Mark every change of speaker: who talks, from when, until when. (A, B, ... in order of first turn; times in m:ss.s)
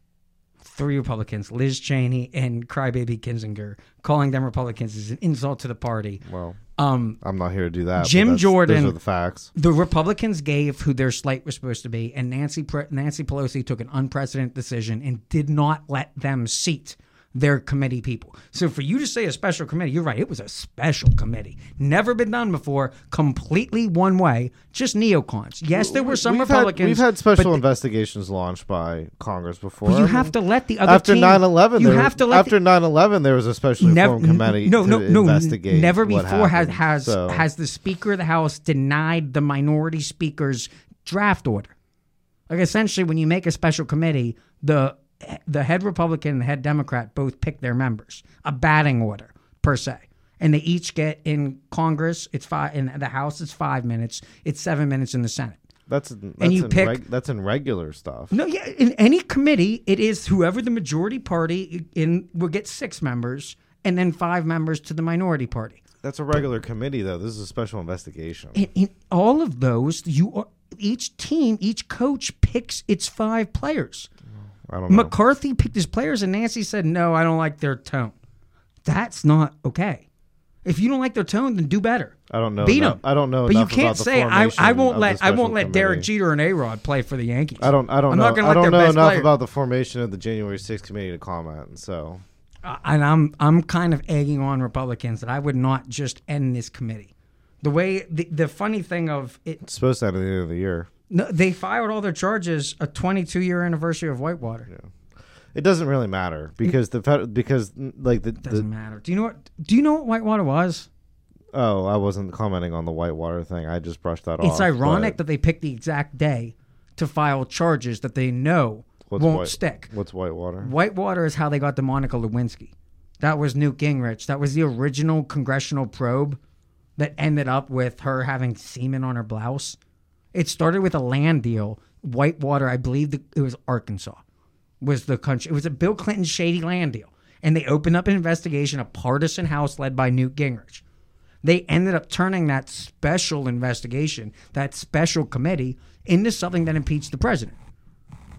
0:00.6-0:06.2 A
0:06.2-0:06.6 B
0:06.8-0:07.2 A
0:07.2-0:09.5 B
0:08.0-0:09.0 A
0:09.5-0:27.6 A
0:25.7-0:37.5 B
0:29.8-0:32.5 A
0:33.8-0:41.7 A
0:42.5-0:55.6 A
0:55.9-0:58.3 B
0:56.4-0:57.0 A
0:58.3-1:05.8 A
1:06.0-1:08.6 B
1:08.5-1:14.1 A
1:14.7-1:15.1 B
1:14.9-1:18.1 A
1:18.8-1:20.0 A
1:20.6-1:29.3 A
1:22.3-1:26.1 B
1:27.6-1:32.2 B
1:32.6-1:37.1 A
1:37.6-1:39.6 A
1:39.6-1:40.9 B
1:41.1-1:44.7 A
1:45.5-1:48.6 B
1:48.4-1:50.9 A
1:51.5-1:55.2 B
1:54.4-1:59.9 A
1:59.1-2:00.7 B
2:00.6-2:06.4 A
2:07.0-2:09.8 A
2:10.3-2:14.2 A
2:14.8-2:20.8 A
2:21.4-2:27.6 A